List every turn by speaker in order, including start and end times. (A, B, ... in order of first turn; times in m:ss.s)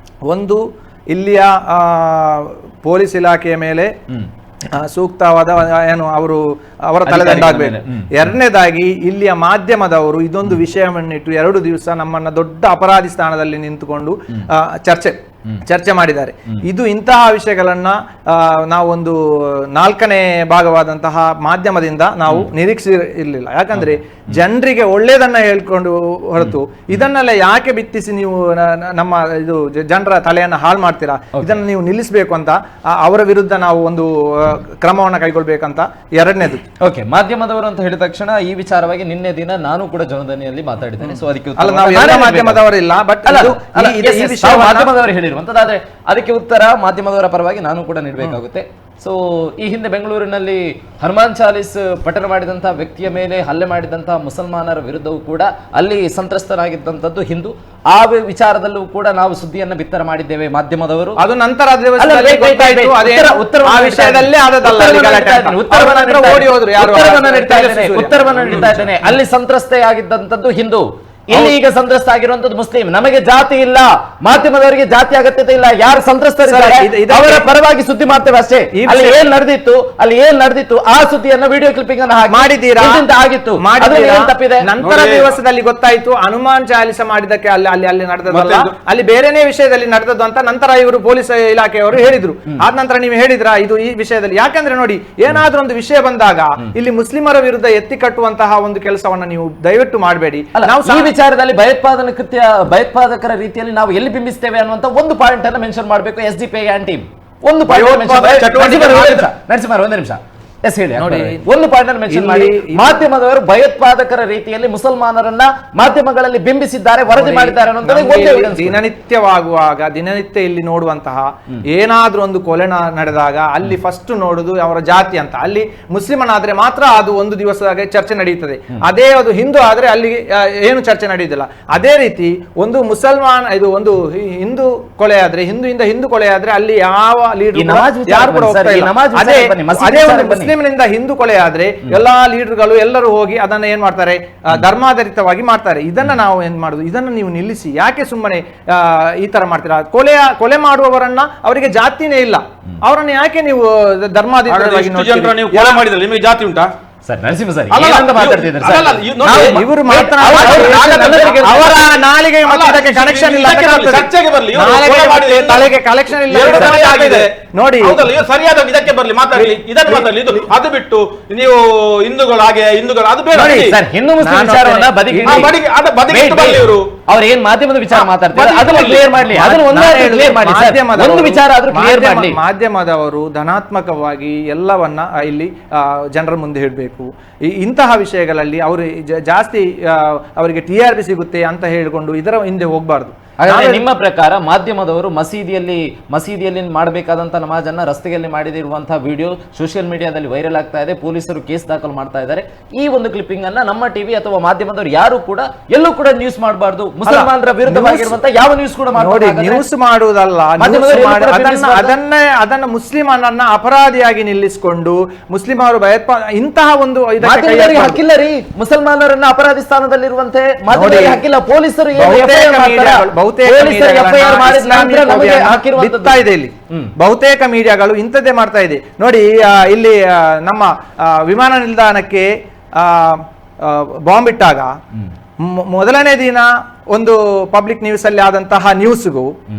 0:00.3-0:00.6 A
0:01.1-0:03.9 A
0:04.8-0:19.2 A
0:07.0-0:08.1 B
0:19.7-0:36.6 A
0:36.8-0:42.6 B
0:41.0-0:44.9 A
0:43.2-1:01.2 B
1:01.2-1:09.1 A
1:02.0-1:24.6 B
1:16.4-1:17.5 A
1:18.7-1:19.2 A
1:22.3-1:23.0 A
1:23.6-1:41.1 A
1:24.8-1:25.3 C
1:28.3-1:28.7 C
1:40.6-1:58.8 B
1:47.7-1:49.3 C
1:47.8-1:48.3 A
1:51.0-1:51.4 A
1:52.1-1:53.0 A
1:57.1-2:35.8 A
2:17.5-2:20.5 B
2:34.5-2:36.7 C
2:37.0-2:41.7 B
2:37.7-2:39.7 C
2:39.2-2:48.0 A
2:40.2-2:41.8 C
2:42.4-2:45.7 C
2:46.3-2:53.8 C
2:46.4-2:46.8 B
2:49.3-2:50.4 A
2:53.3-2:55.5 B
2:54.2-2:55.5 A
2:55.2-2:56.8 C
2:56.1-3:02.4 B
2:58.3-3:13.8 A
2:58.5-2:59.0 C
3:13.4-3:29.6 B
3:27.0-3:28.1 A
3:29.0-3:38.0 A
3:30.6-3:31.9 B
3:37.2-3:46.2 B
3:40.7-3:41.2 A
3:41.9-3:54.7 A
3:55.4-3:59.3 A